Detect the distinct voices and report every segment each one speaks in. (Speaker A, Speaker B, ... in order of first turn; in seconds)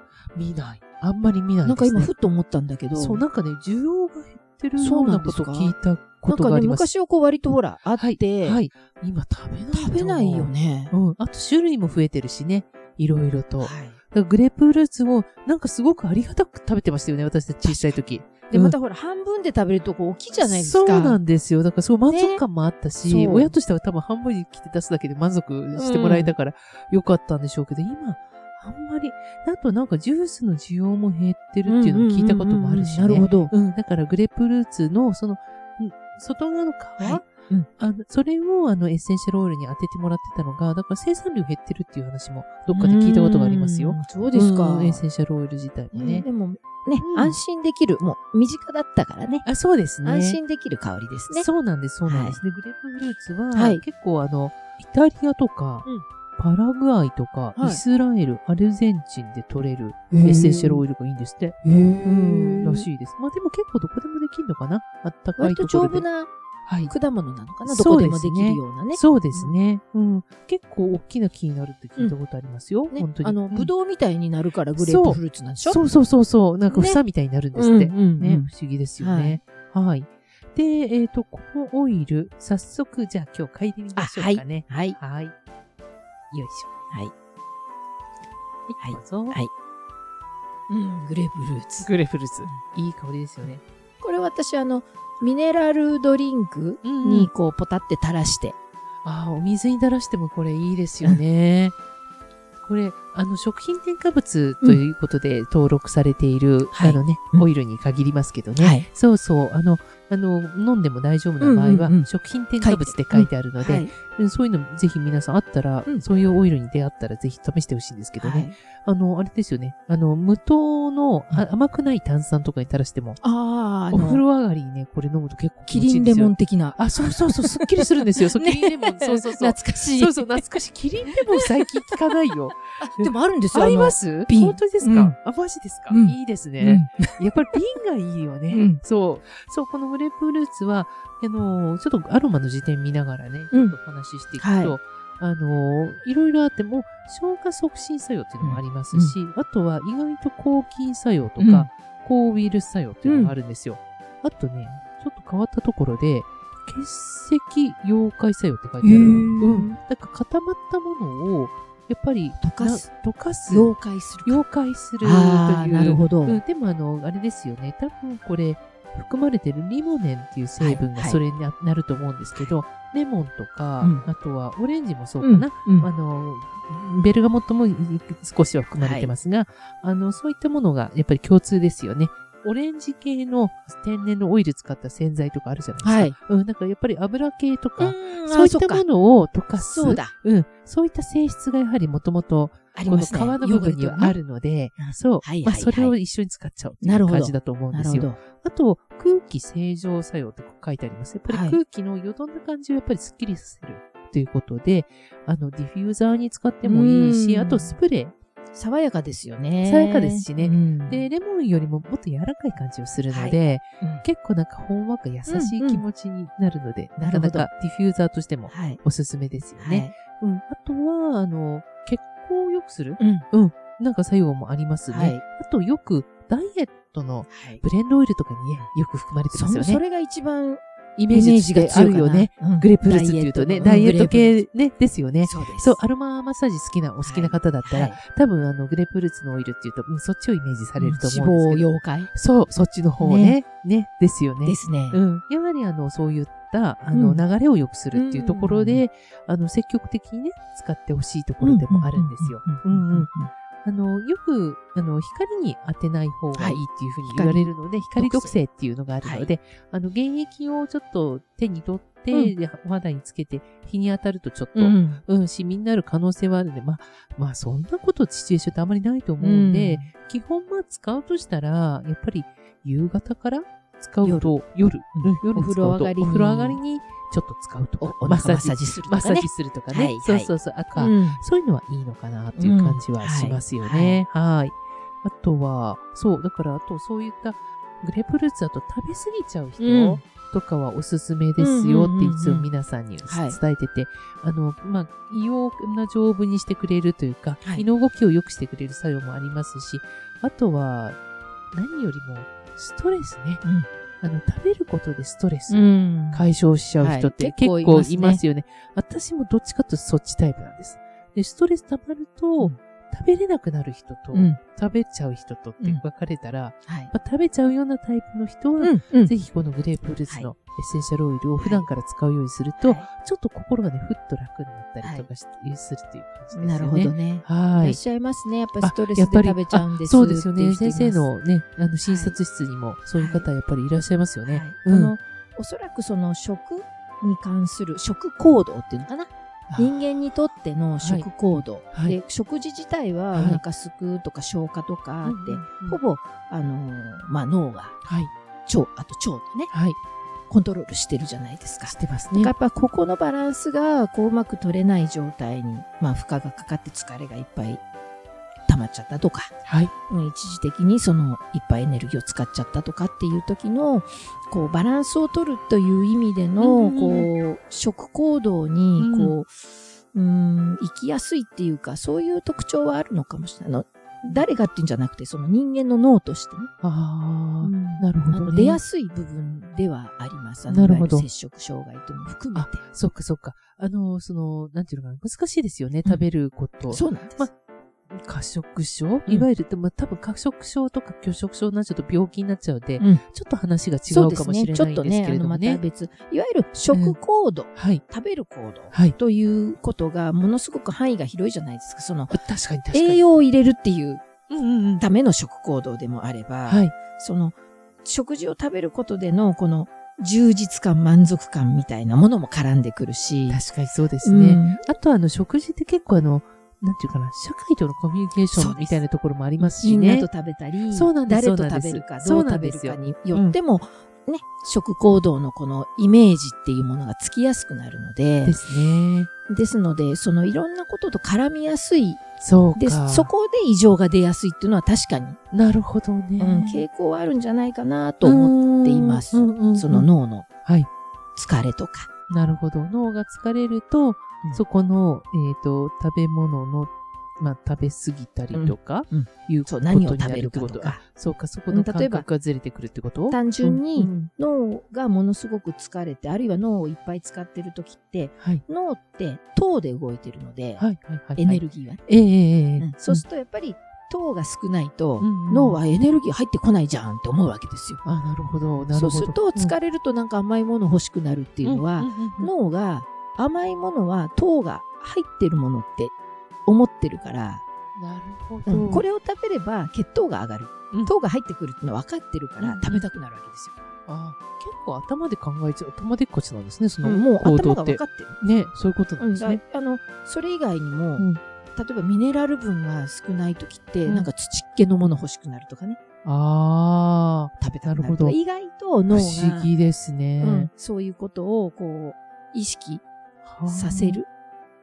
Speaker A: 0.3-2.1, 3.0-6.9, 8.0-18.8, 20.4-46.3, 47.0-47.4, 49.5-50.4, 51.3-66.0, 66.7-66.9, 67.7-73.7, 74.8-85.3, 86.3-86.7, 88.7-89.4, 91.8-93.6, 96.8-97.3, 99.0-101.8, 102.6-123.2, 123.9-163.7, 164.2-208.1, 209.6-229.8, 231.0-253.1, 253.6-301.0, 301.5-303.4, 304.0-327.8, 328.6-334.9, 339.5-339.8, 340.8-341.1, 341.7-342.0, 343.1-343.4, 345.0-345.8, 347.8-348.1, 349.5-349.8, 351.7-352.3, 359.5-359.7, 366.4-367.1, 368.8-369.1, 376.6-378.6, 380.5-381.1, 382.4-387.3, 387.9-395.6, 396.7-397.0, 397.5-397.8, 398.7-399.0, 402.1-403.0, 404.3-404.8, 406.5-406.8, 413.3-420.1, 420.7-423.4, 428.2-429.1, 432.2-433.1, 435.3-436.6, 438.0-439.9, 442.1-454.1, 460.6-463.0, 465.0-465.6, 467.8-469.6, 471.4-472.3, 477.8-478.9, 482.4-482.8, 483.9-489.4, 496.0-498.2, 498.9-500.5, 503.2-504.0
Speaker B: 1.6-3.2, 4.8-5.7, 6.3-8.6, 9.7-10.9, 13.6-14.0, 17.6-21.2, 22.1-22.4, 23.1-23.6, 25.8-26.4, 31.7-33.5, 37.0-37.7, 42.7-45.0, 45.9-49.5, 50.0-51.5, 52.0-52.4, 53.5-53.8, 57.6-57.8, 60.1-60.8, 61.6-62.9, 65.4-66.3, 66.8-69.5, 72.9-75.8, 76.7-77.0, 77.6-79.4, 84.0-85.0, 88.8-89.5, 90.7-91.9, 93.5-98.6, 106.7-107.5, 108.6-108.9, 111.4-112.1, 112.6-113.9, 118.2-118.5, 123.2-124.2, 125.7-130.4, 131.1-132.0, 132.8-135.2, 135.9-137.1, 138.5-138.8, 144.4-144.8, 148.4-149.2, 151.4-151.7, 153.1-153.3, 158.8-159.8, 162.4-162.9, 163.5-164.4, 165.0-166.4, 170.6-171.2, 173.8-174.1, 175.2-175.9, 178.8-179.1, 185.8-186.1, 187.8-188.8, 189.6-190.1, 192.8-194.2, 194.8-195.9, 196.8-198.2, 201.3-201.6, 206.6-207.7, 208.5-211.1, 213.1-214.1, 215.3-215.8, 217.0-217.5, 218.5-218.8, 219.6-219.9, 223.0-223.3, 224.9-225.2, 227.3-227.6, 229.3-234.4, 235.2-235.8, 237.0-238.0, 240.8-242.1, 243.0-243.4, 244.4-245.0, 246.9-247.2, 247.9-248.8, 251.4-253.3, 256.4-258.4, 259.0-259.3, 264.6-265.0, 269.2-269.9, 274.0-274.3, 275.0-276.6, 277.8-281.2, 282.4-284.0, 289.6-290.0, 291.4-292.5, 293.0-293.4, 305.5-306.2, 306.8-308.2, 314.1-314.4, 316.7-316.9, 318.6-319.1, 321.4-321.7, 322.6-322.9, 324.8-325.1, 326.3-331.1, 331.9-332.2, 333.0-333.3, 334.3-347.8, 348.5-349.5, 350.3-357.6, 358.5-359.3, 359.9-376.5, 377.4-382.6, 386.7-387.3, 393.9-402.2, 402.7-404.0, 404.8-413.4, 414.0-414.6, 418.3-418.8, 419.4-428.4, 429.3-432.0, 432.6-435.2, 436.2-440.3, 441.2-441.9, 448.3-450.8, 451.5-452.1, 453.1-460.6, 461.2-461.8, 462.6-467.8, 468.7-475.9, 476.5-477.4, 478.5-483.5, 486.8-488.2, 489.0-495.8, 497.4-499.5, 500.2-502.8, 503.5-504.1